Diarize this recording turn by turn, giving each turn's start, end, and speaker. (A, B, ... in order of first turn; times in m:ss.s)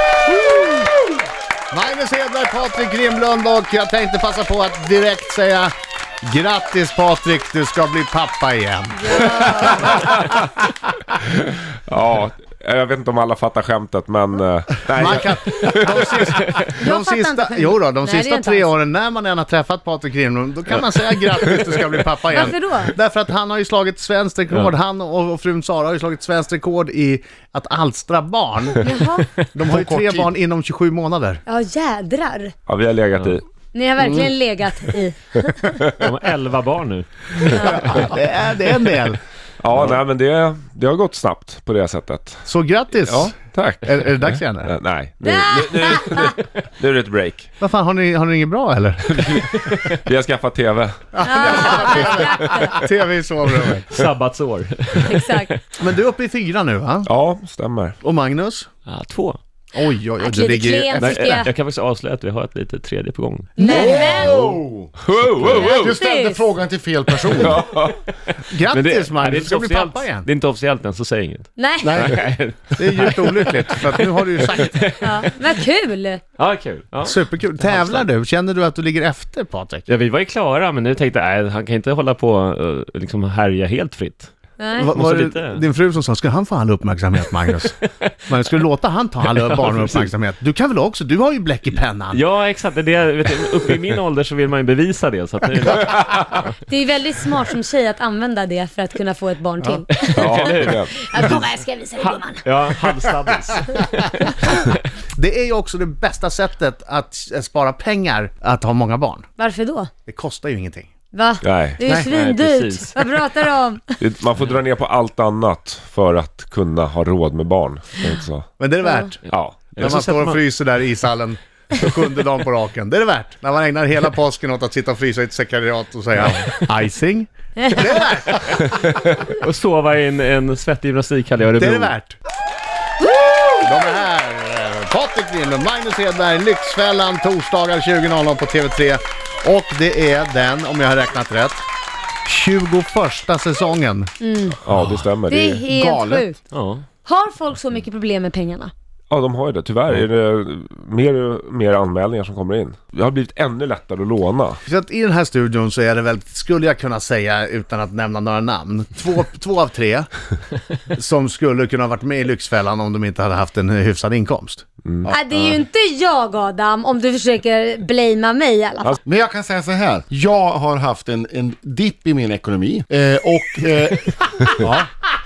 0:00.3-0:00.7 A
0:01.7-0:10.0 A
0:09.0-0:09.8 B
0:09.6-0:10.4 C
0:11.2-0:16.2 C
0:14.9-0:31.4 A
0:16.8-0:18.7 B
0:22.3-0:22.9 B
0:28.8-0:29.3 B
0:29.7-0:30.3 D
0:31.5-0:32.5 B
0:32.7-0:33.4 C
0:33.1-0:33.4 E
0:33.7-0:35.8 B
0:36.0-0:38.1 E
0:37.5-0:37.8 B
0:37.5-0:39.2 A
0:39.6-0:42.5 C
0:42.4-0:44.7 A
0:43.0-0:47.5 C
0:45.2-0:46.4 B
0:47.6-0:49.3 A
0:49.1-0:52.8 C
0:51.1-0:53.8 A
0:51.2-0:52.8 B
0:53.9-0:55.6 E
0:55.1-0:55.5 B
0:55.8-0:57.1 A
0:57.0-0:58.0 C
0:58.0-0:58.7 A
0:58.8-0:59.4 E
0:59.7-1:01.2 A
1:00.2-1:01.5 B
1:01.0-1:03.6 E
1:03.6-1:04.4 B
1:03.6-1:07.6 D
1:04.0-1:06.0 C
1:05.5-1:06.4 B
1:07.3-1:08.0 C
1:08.3-1:15.3 E
1:08.5-1:10.3 A
1:11.6-1:12.0 B
1:11.8-1:12.2 D
1:12.8-1:14.9 A
1:15.0-1:16.2 B
1:16.4-1:18.0 E
1:17.0-1:19.9 A
1:19.9-1:24.3 E
1:24.6-1:24.9 B
1:24.8-1:32.2 A
1:24.9-1:25.6 E
1:29.5-1:30.1 E
1:32.1-1:36.5 E
1:36.7-1:42.4 B
1:39.9-1:41.4 E
1:40.2-1:40.9 C
1:42.0-1:44.8 E
1:45.2-1:49.2 A
1:49.4-1:49.9 B
1:50.1-1:50.9 A
1:51.1-1:54.0 B
1:51.4-1:51.8 C
1:51.8-1:53.0 E
1:54.0-1:58.5 C
1:58.6-1:59.2 A
1:58.8-1:59.1 B
1:59.3-2:00.4 E
1:59.3-1:59.9 C
1:59.8-2:08.5 A
2:07.6-2:08.0 B
2:08.6-2:11.9 E
2:11.6-2:12.2 A
2:13.6-2:21.6 A
2:22.2-2:24.1 A
2:24.2-2:24.6 B
2:24.6-2:25.6 C
2:25.3-2:26.4 B
2:25.7-2:26.2 A
2:26.5-2:26.8 E
2:27.0-2:28.7 B
2:29.1-2:34.6 C
2:34.6-2:40.1 A
2:40.9-2:44.6 A
2:44.8-2:45.1 C
2:45.0-2:49.0 B
2:49.0-2:54.7 D